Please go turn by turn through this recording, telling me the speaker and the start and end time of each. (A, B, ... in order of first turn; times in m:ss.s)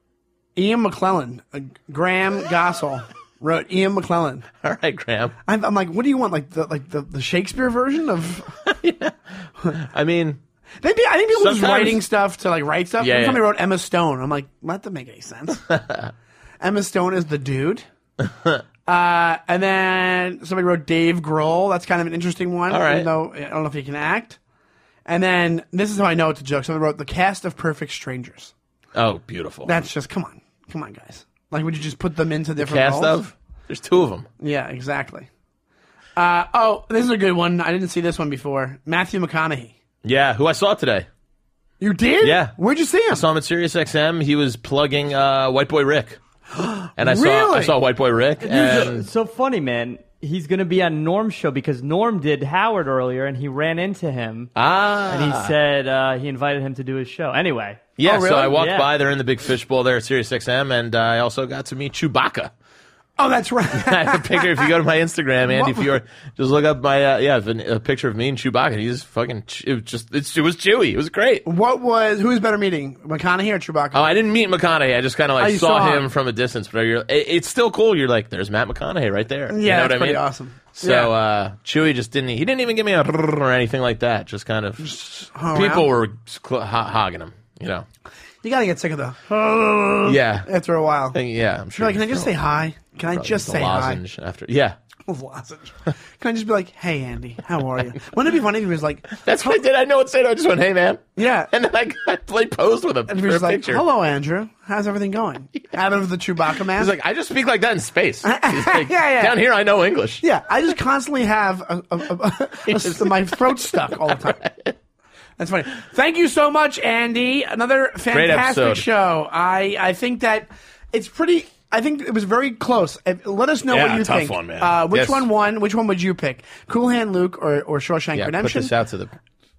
0:00.6-0:04.5 A
0:04.6-0:05.4 B
0:05.5-0:08.6 A
0:08.6-0:10.4 B
0:10.8-0:15.6 A
0:11.3-0:12.0 B
0:13.0-0:13.4 B
0:15.7-0:16.1 B
0:16.6-0:17.9 A
0:18.2-0:18.6 B
0:18.9-0:24.4 A
0:22.7-0:23.1 B
0:25.1-0:28.5 A
0:28.9-0:29.7 B
0:29.6-0:33.2 A
0:32.6-0:34.3 B
0:34.4-0:35.3 A
0:36.2-0:39.8 A
0:40.0-0:41.1 B
0:41.8-0:43.2 A
0:42.2-0:42.6 B
0:43.1-0:46.2 B
0:46.5-0:47.8 A
0:47.0-0:49.1 B
0:48.4-0:54.5 C
0:48.5-0:48.9 A
0:54.6-0:55.6 B
0:55.1-0:58.0 C
0:58.0-1:02.5 B
0:58.0-0:58.6 A
0:58.5-0:58.9 C
1:03.2-1:04.7 A
1:03.7-1:11.5 B
1:05.5-1:05.9 A
1:11.5-1:14.1 A
1:13.9-1:20.2 B
1:15.4-1:16.1 A
1:19.5-1:21.1 A
1:20.7-1:25.0 B
1:24.8-1:25.9 A
1:25.5-1:27.9 B
1:28.4-1:31.2 A
1:30.0-1:30.5 B
1:31.1-1:32.3 B
1:31.8-1:34.0 A
1:33.1-1:34.8 B
1:35.1-1:39.6 A
1:39.2-1:43.8 B
1:41.2-1:41.5 A
1:43.1-1:46.9 A
1:46.7-1:50.2 B
1:48.2-1:49.4 A
1:50.2-1:54.4 A
1:52.7-1:54.8 B
1:55.4-2:08.7 A
1:58.1-1:58.9 B
2:03.7-2:05.3 B
2:08.2-2:09.2 B